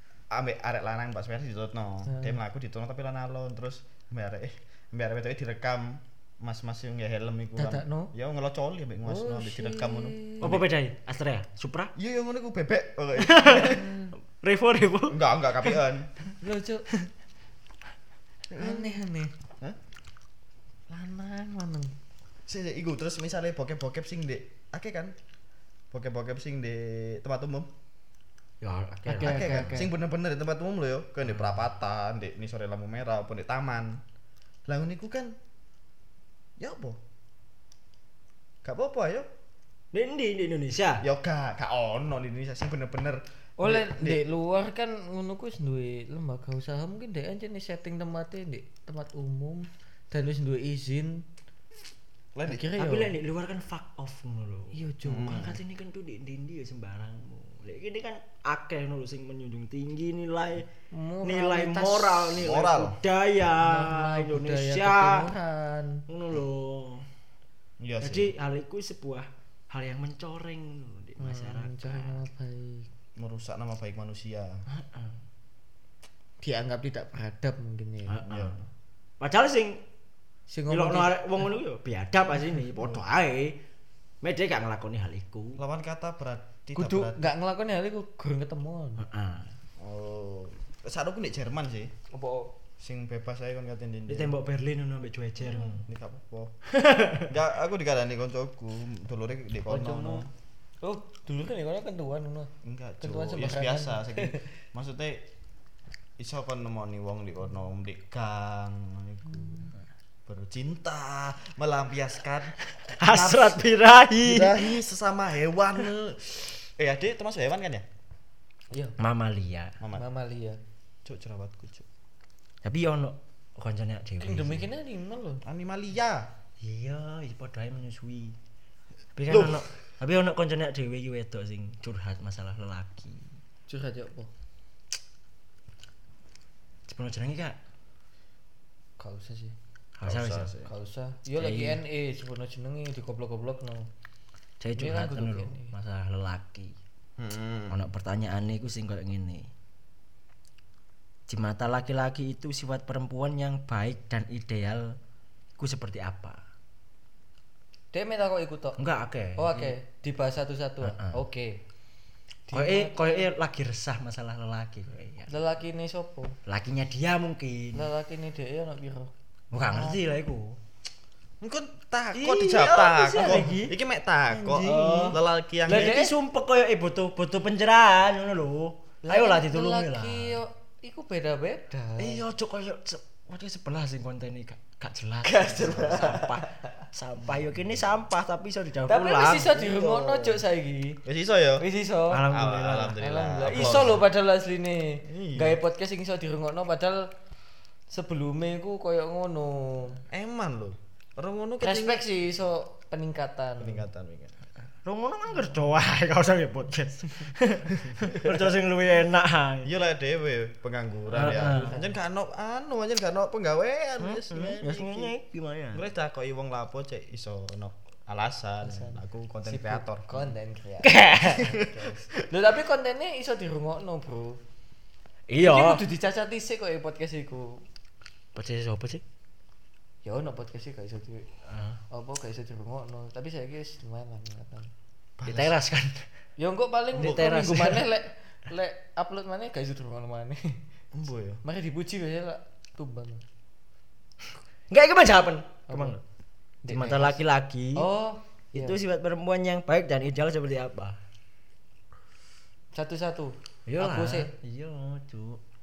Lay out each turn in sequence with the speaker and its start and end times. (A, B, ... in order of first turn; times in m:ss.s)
0:00.3-0:10.7 A
0:02.1-0:02.4 B
0:07.6-0:08.1 B
0:09.0-0:10.5 B
0:10.4-0:11.9 C
0:12.0-0:13.9 A
0:13.2-0:13.8 C
0:13.6-0:14.1 B
0:14.3-0:15.7 C
0:15.1-0:16.1 A
0:16.4-0:16.9 B
0:18.5-0:19.0 A
0:18.5-0:19.3 B
0:20.9-0:21.9 B
0:22.5-0:25.1 A
0:25.9-0:27.7 A
0:28.6-0:29.9 C
0:29.0-0:29.9 B
0:29.2-0:34.0 A
0:34.7-0:35.4 A
0:36.6-0:37.0 A
0:38.6-0:39.3 A
0:39.9-0:41.0 C
0:41.0-0:44.2 A
0:43.6-0:51.2 B
0:52.3-0:52.6 A
0:52.4-0:53.1 B
0:52.7-1:00.7 C
0:54.7-0:55.5 B
0:55.0-0:55.6 A
1:00.9-1:02.4 B
1:01.2-1:05.3 C
1:02.4-1:03.0 A
1:03.6-1:06.0 B
1:06.1-1:07.0 C
1:07.8-1:08.3 A
1:08.0-1:12.2 C
1:11.2-1:12.8 B
1:13.2-1:14.6 A
1:14.7-1:15.1 C
1:16.4-1:18.2 B
1:18.1-1:18.6 C
1:18.2-1:18.6 A
1:19.2-1:19.8 C
1:20.5-1:21.2 B
1:20.7-1:23.6 C
1:24.2-1:25.6 C
1:25.6-1:27.2 A
1:26.8-1:29.0 B
1:29.0-1:29.5 C
1:29.8-1:31.9 A
1:32.1-1:32.5 B
1:32.8-1:34.3 A
1:34.1-1:35.8 C
1:35.4-1:36.5 A
1:36.7-1:37.3 C
1:37.2-1:40.3 A
1:39.7-1:40.2 B
1:40.8-1:44.4 B
1:42.6-1:45.2 A
1:46.2-1:49.7 A
1:50.3-1:52.6 A
1:52.8-1:54.8 C
1:53.1-1:53.4 A
1:54.2-1:57.8 A
1:59.0-1:59.8 C
1:59.9-2:00.6 B
2:01.0-2:01.9 A
2:02.6-2:04.7 C
2:04.2-2:05.4 B
2:05.4-2:06.3 A
2:06.6-2:08.4 C
2:09.2-2:13.3 C
2:09.3-2:09.6 A
2:13.7-2:14.3 B
2:16.9-2:17.6 C
2:19.0-2:19.5 B
2:20.0-2:20.5 C
2:20.0-2:20.7 A
2:20.6-2:23.9 B
2:21.4-2:21.8 C
2:24.6-2:26.7 C
2:24.7-2:25.7 B
2:27.2-2:27.8 A
2:27.7-2:29.5 C
2:31.3-2:35.0 C
2:35.6-2:36.4 C
2:37.9-2:38.8 B
2:38.8-2:39.7 C
2:39.4-2:41.6 B
2:40.8-2:41.2 C
2:42.5-2:43.2 B
2:42.5-2:45.3 C
2:45.3-2:46.3 B
2:46.4-2:47.9 C
2:47.7-2:49.1 B
2:49.5-2:50.6 C
2:49.6-2:50.0 B
2:51.4-2:56.0 A
2:52.1-2:53.7 C
2:52.6-2:53.7 B
2:54.3-2:56.1 B
2:54.5-3:00.4 C
2:59.0-3:02.2 B
3:02.0-3:09.5 C
3:05.2-3:06.4 B
3:08.9-3:11.0 B
3:09.5-3:10.4 A
3:11.0-3:11.6 A
3:11.6-3:12.2 B
3:12.1-3:14.0 C
3:12.2-3:14.0 A
3:13.0-3:17.1 B
3:15.0-3:15.6 A
3:17.9-3:20.0 B
3:20.1-3:22.0 A
3:21.6-3:23.8 B
3:23.6-3:24.3 A
3:24.8-3:29.7 C
3:27.9-3:28.5 A
3:29.6-3:35.1 A
3:31.1-3:31.7 C
3:31.2-3:31.9 B
3:34.0-3:35.8 C
3:35.7-3:40.3 A
3:38.6-3:44.4 B
3:40.8-3:41.6 C
3:41.4-3:41.8 A
3:45.3-3:45.8 C
3:45.4-3:47.6 B
3:48.3-3:49.0 C
3:50.0-3:51.3 B
3:51.5-3:51.8 C
3:51.9-3:54.7 B
3:55.2-3:55.5 A
3:55.2-3:56.0 C
3:56.4-4:00.6 B
3:56.9-3:57.2 A
3:57.0-3:57.9 C
4:00.9-4:01.4 A
4:01.4-4:03.2 B
4:04.7-4:06.0 C
4:05.7-4:06.0 B
4:06.6-4:07.2 B
4:06.7-4:07.8 C
4:07.8-4:08.8 B
4:08.5-4:11.0 C
4:12.7-4:14.3 B
4:13.7-4:15.4 C